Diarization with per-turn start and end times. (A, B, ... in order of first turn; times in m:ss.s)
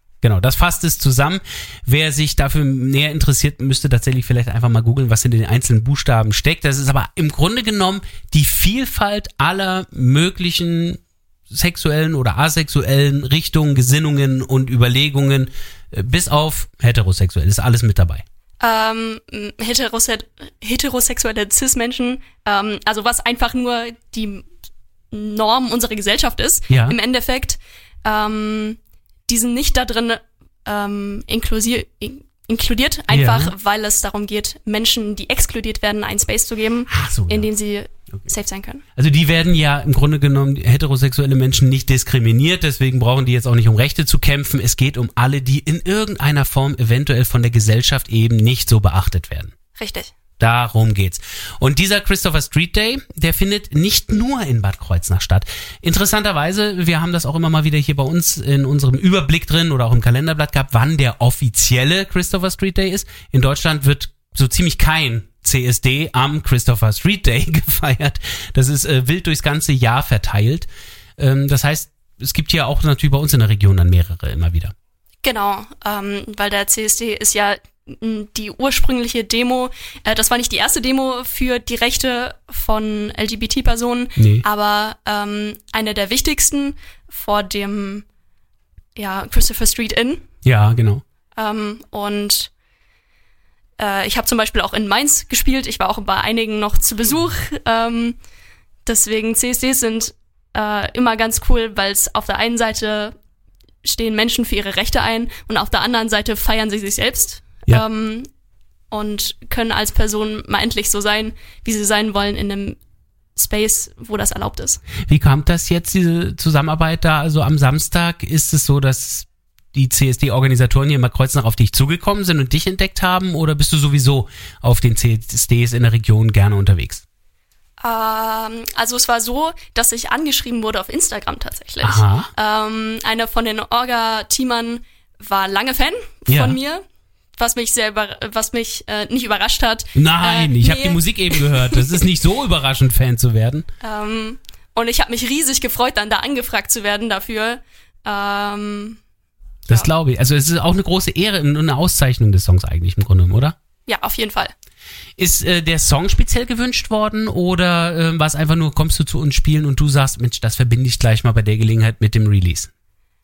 0:00.2-0:18.2 A
0:18.6-0:24.4 B
0:25.1-0:38.8 B
0:26.7-0:27.0 A
0:33.1-0:33.5 A
0:36.9-0:37.5 A
0:39.0-0:49.5 A
0:49.8-0:50.1 B
0:50.4-1:14.7 A
1:15.2-1:28.0 B
1:24.2-1:24.4 A
1:29.0-1:30.2 B
1:30.4-1:31.0 A
1:31.4-1:32.5 B
1:33.8-1:38.2 B
1:38.8-1:43.1 B
1:43.8-1:48.3 B
1:48.9-1:52.8 B
1:53.4-1:54.8 B
1:55.0-2:07.0 A
2:07.8-2:16.8 B
2:11.8-2:12.3 A
2:16.3-2:16.6 A
2:17.4-2:22.0 B
2:19.9-2:23.7 A
2:23.8-2:29.0 B
2:29.7-2:33.6 A
2:33.9-2:34.5 B
2:35.2-2:42.7 A